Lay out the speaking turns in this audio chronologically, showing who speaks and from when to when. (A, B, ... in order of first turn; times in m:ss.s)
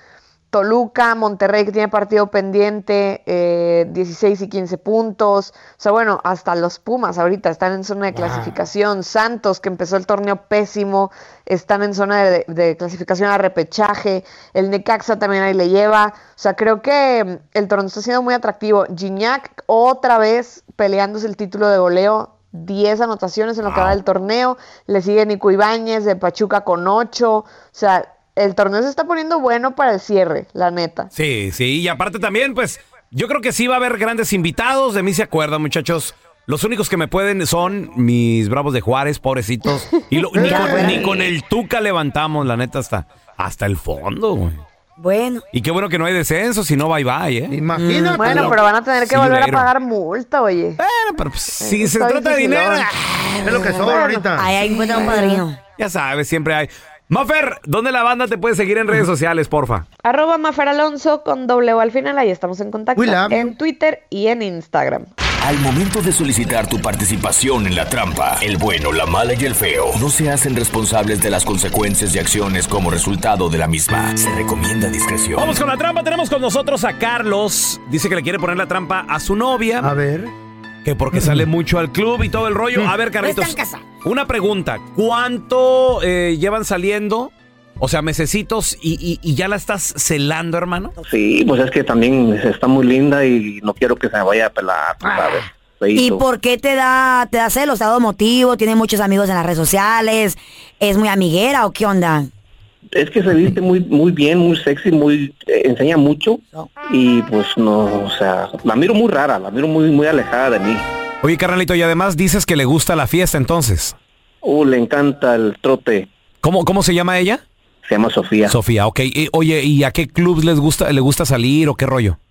0:00.5-0:31.1 A
0:08.2-0:08.5 B
0:23.6-0:24.0 C
0:31.1-0:44.6 C
0:40.3-0:41.3 D
0:40.3-0:41.2 B
0:45.0-0:45.4 D
0:45.5-0:47.6 C
0:47.5-0:48.6 B
0:47.7-0:48.5 D
0:48.1-0:50.8 A
0:49.0-0:49.7 C
0:50.8-0:52.9 C
0:51.6-0:52.9 A
0:53.4-0:54.5 B
0:53.5-0:55.6 D
0:53.8-0:55.4 A
0:55.8-0:59.8 C
1:00.0-1:05.1 A
1:03.0-1:03.5 B
1:05.4-1:15.6 E
1:15.3-1:19.9 C
1:19.8-1:20.3 B
1:20.8-1:30.9 C
1:21.1-1:21.4 B
1:23.2-1:23.8 D
1:31.0-1:36.2 F
1:35.9-1:42.3 D
1:42.9-1:50.8 F
1:51.2-1:53.9 C
1:54.4-1:56.1 F
1:56.4-1:57.4 C
1:57.8-1:58.6 F
1:58.5-2:02.2 C